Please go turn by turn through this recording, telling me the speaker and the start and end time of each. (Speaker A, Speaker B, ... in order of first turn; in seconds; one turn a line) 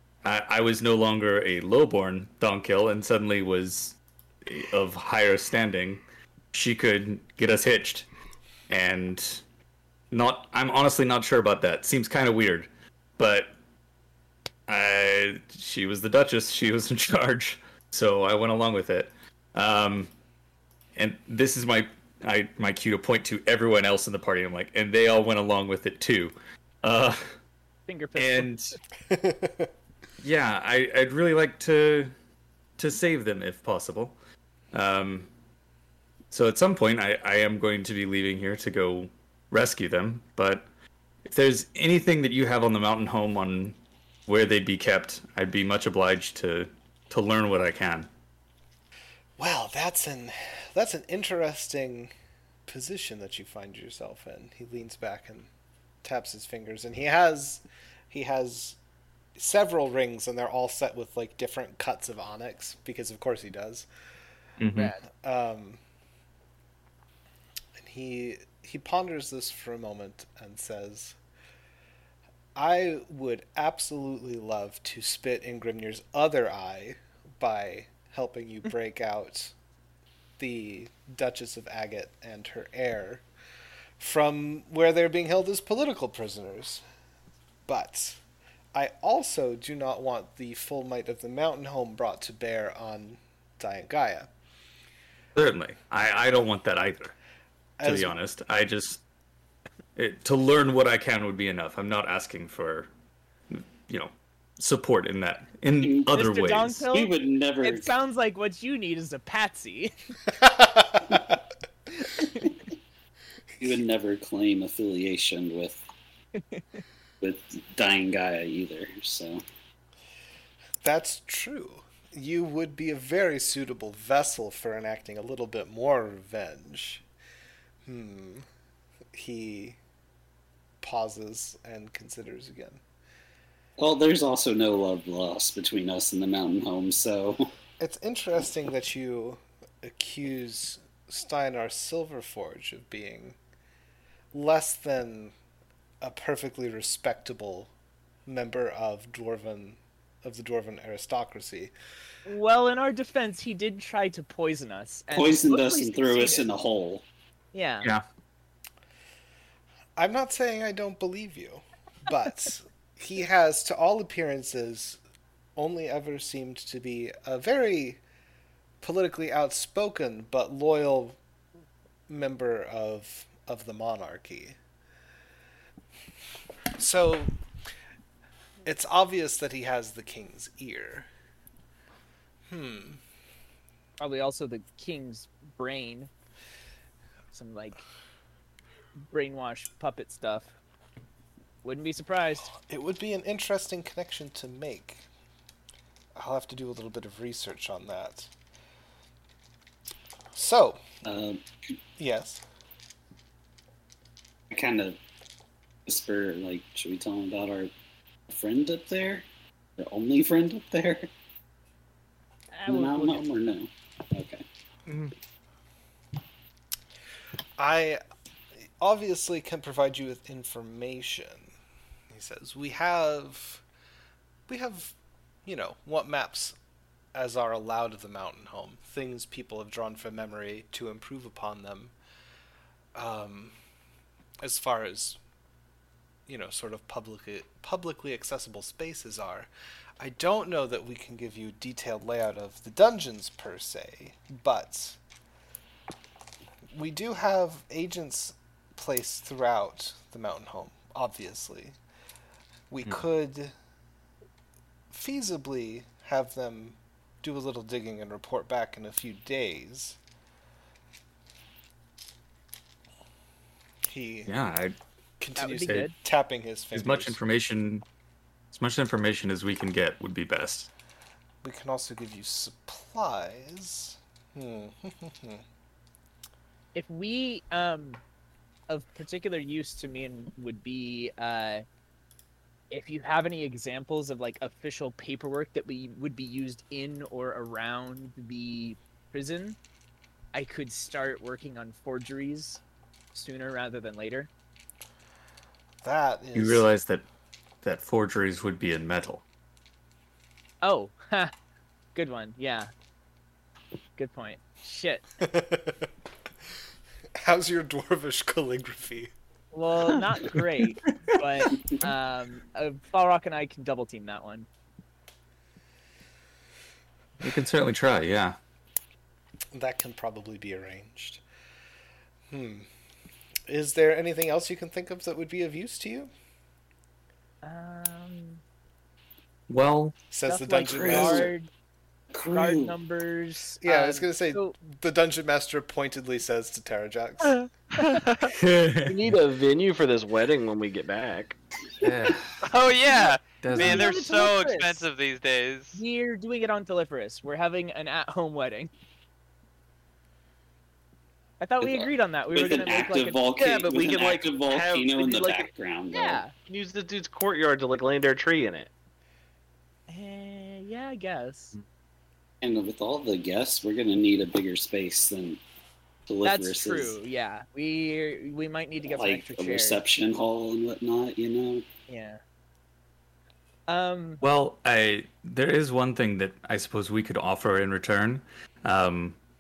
Speaker A: 0.2-6.0
Speaker A: 6.5-8.1
Speaker A: 8.7-9.4
Speaker A: 10.1-13.5
Speaker A: 14.7-20.1
Speaker A: 21.0-27.4
Speaker B: 27.9-28.7
Speaker A: 28.2-28.7
Speaker C: 29.1-29.7
Speaker A: 30.2-32.1
Speaker A: 32.8-34.1
Speaker A: 34.7-35.3
Speaker A: 36.3-40.6
Speaker A: 41.2-43.8
Speaker A: 44.3-48.1
Speaker C: 49.4-52.1
Speaker C: 52.7-55.5
Speaker C: 56.0-58.8
Speaker C: 59.4-63.9
Speaker A: 64.6-64.9
Speaker C: 65.1-65.8
Speaker C: 67.8-71.2
Speaker C: 72.5-79.5
Speaker C: 80.4-83.2
Speaker C: 84.0-86.8
Speaker C: 87.7-88.2
Speaker C: 88.7-94.3
Speaker A: 95.3-97.2
Speaker C: 97.8-98.2
Speaker A: 97.8-99.0
Speaker A: 100.0-102.9
Speaker A: 103.5-106.8
Speaker D: 105.8-106.1
Speaker B: 106.1-110.1
Speaker D: 106.9-107.9
Speaker C: 110.4-111.4
Speaker B: 112.0-112.5
Speaker D: 113.6-115.8
Speaker B: 116.3-116.8
Speaker D: 117.2-119.4
Speaker C: 120.8-127.0
Speaker C: 127.8-128.5
Speaker C: 129.1-129.8
Speaker C: 130.8-132.8
Speaker D: 133.8-137.5
Speaker C: 137.8-143.4
Speaker C: 144.3-145.3
Speaker C: 146.0-147.7
Speaker C: 148.3-151.7
Speaker B: 152.3-156.5
Speaker D: 155.1-157.1
Speaker B: 157.5-157.9
Speaker C: 160.0-165.0
Speaker C: 165.6-168.0
Speaker C: 168.8-171.2
Speaker C: 172.1-174.6
Speaker C: 176.8-177.4
Speaker C: 178.6-181.1
Speaker C: 182.5-183.0
Speaker B: 184.0-186.1
Speaker B: 187.3-187.8
Speaker B: 189.1-190.5
Speaker B: 191.6-192.5
Speaker C: 192.6-195.1
Speaker C: 196.2-198.3
Speaker C: 200.3-200.8
Speaker D: 201.1-201.4
Speaker C: 202.0-202.4
Speaker D: 204.5-205.0
Speaker D: 205.9-207.7
Speaker D: 208.3-209.3
Speaker D: 209.8-211.1
Speaker B: 212.5-213.3
Speaker D: 212.7-214.4
Speaker A: 214.9-215.1
Speaker C: 217.6-218.0
Speaker C: 218.6-221.5
Speaker C: 222.1-223.6
Speaker C: 224.5-226.6
Speaker C: 227.1-231.9
Speaker C: 232.9-233.6
Speaker C: 234.4-235.2
Speaker C: 236.3-245.0
Speaker C: 246.7-251.8
Speaker C: 252.7-253.5
Speaker C: 254.9-260.0
Speaker C: 263.9-264.3
Speaker A: 264.3-264.8
Speaker C: 265.2-267.2
Speaker B: 265.4-265.9
Speaker A: 266.7-267.9
Speaker A: 268.5-270.7
Speaker C: 271.4-275.4
Speaker B: 276.8-278.0
Speaker B: 278.7-281.6
Speaker B: 282.7-289.6
Speaker B: 290.3-292.6
Speaker B: 293.1-294.3
Speaker C: 295.8-296.6
Speaker A: 296.4-297.0
Speaker A: 297.6-299.2
Speaker B: 300.6-301.3
Speaker B: 301.9-302.7
Speaker B: 304.0-305.1
Speaker C: 305.2-305.9
Speaker C: 307.2-309.1
Speaker B: 309.5-314.5
Speaker A: 317.2-318.4
Speaker C: 319.5-321.2
Speaker C: 322.3-322.7
Speaker C: 323.5-326.1
Speaker B: 327.4-328.4
Speaker A: 329.5-330.0
Speaker C: 330.1-331.3
Speaker B: 330.3-331.5
Speaker D: 330.7-331.3
Speaker D: 332.1-332.8
Speaker B: 332.2-334.6
Speaker C: 333.6-337.4
Speaker E: 337.8-338.3
Speaker A: 338.3-339.2
Speaker F: 338.9-341.4
Speaker A: 341.8-342.5
Speaker E: 342.4-345.8
Speaker A: 343.4-344.0
Speaker B: 343.6-344.9
Speaker B: 345.7-348.7
Speaker B: 351.4-353.2
Speaker D: 351.6-356.2
Speaker F: 353.3-355.5
Speaker B: 355.9-356.3
Speaker F: 356.4-358.7
Speaker B: 359.9-361.6
Speaker D: 362.4-365.4
Speaker D: 366.1-367.0
Speaker B: 366.2-369.8
Speaker D: 368.8-371.6
Speaker B: 371.9-372.2
Speaker B: 373.7-374.2
Speaker A: 374.2-379.2